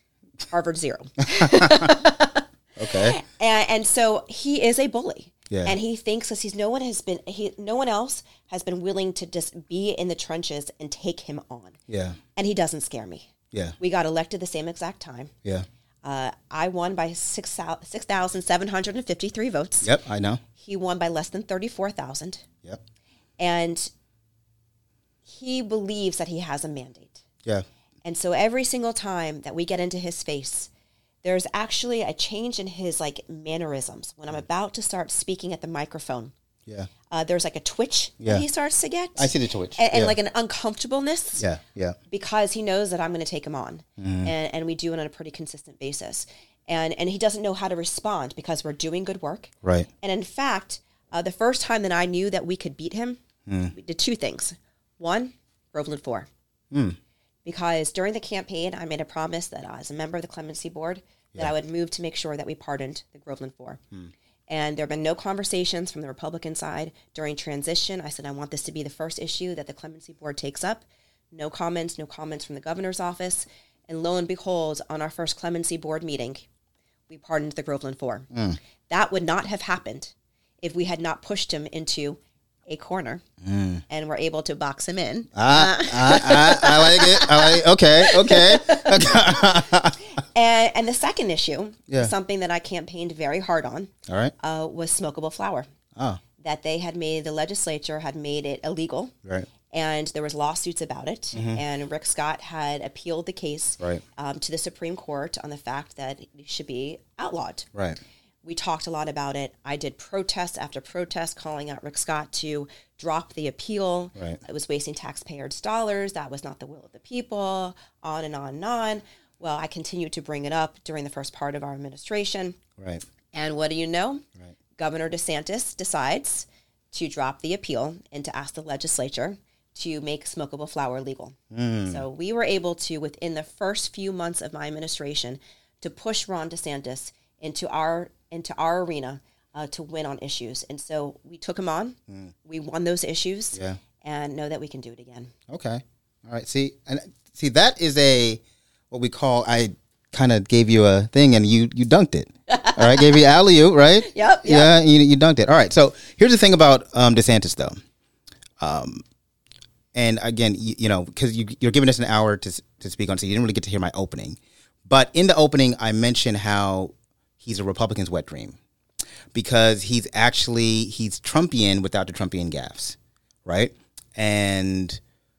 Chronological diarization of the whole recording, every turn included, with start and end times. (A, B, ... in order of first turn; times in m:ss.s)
0:00.5-0:11.8 A
0:01.3-0:01.9 B
0:02.8-0:03.2 B
0:05.5-0:05.8 B
0:11.9-0:12.2 B
0:12.4-0:15.3 A
0:16.0-0:19.9 A
0:19.8-0:20.4 B
0:20.6-0:22.4 A
0:23.4-0:23.9 A
0:25.2-0:27.2 A
0:28.0-0:30.7 A
0:31.2-0:36.3 A
0:37.1-0:41.4 A
0:39.2-0:40.2 B
0:41.4-0:42.0 B
0:42.1-0:56.3 A
0:44.0-0:44.3 B
0:49.6-0:49.9 B
0:53.4-0:53.7 B
0:56.7-0:57.0 B
0:57.4-1:03.8 A
1:04.5-1:16.4 A
1:17.1-1:18.3 A
1:18.3-1:18.6 B
1:18.9-1:23.2 A
1:23.4-1:23.8 B
1:23.9-1:29.6 A
1:25.3-1:30.0 B
1:30.2-1:35.7 A
1:34.1-1:34.3 B
1:35.9-1:36.2 B
1:36.4-1:39.1 A
1:39.7-1:47.7 A
1:41.3-1:41.6 B
1:48.4-2:02.6 A
2:02.8-2:03.0 B
2:03.3-2:04.2 A
2:04.8-2:25.3 A
2:11.5-2:12.0 B
2:23.5-2:23.8 B
2:25.5-2:37.8 B
2:32.5-2:33.2 A
2:34.0-2:34.7 A
2:38.6-2:39.0 B
2:39.9-2:48.6 B
2:49.3-2:55.0 B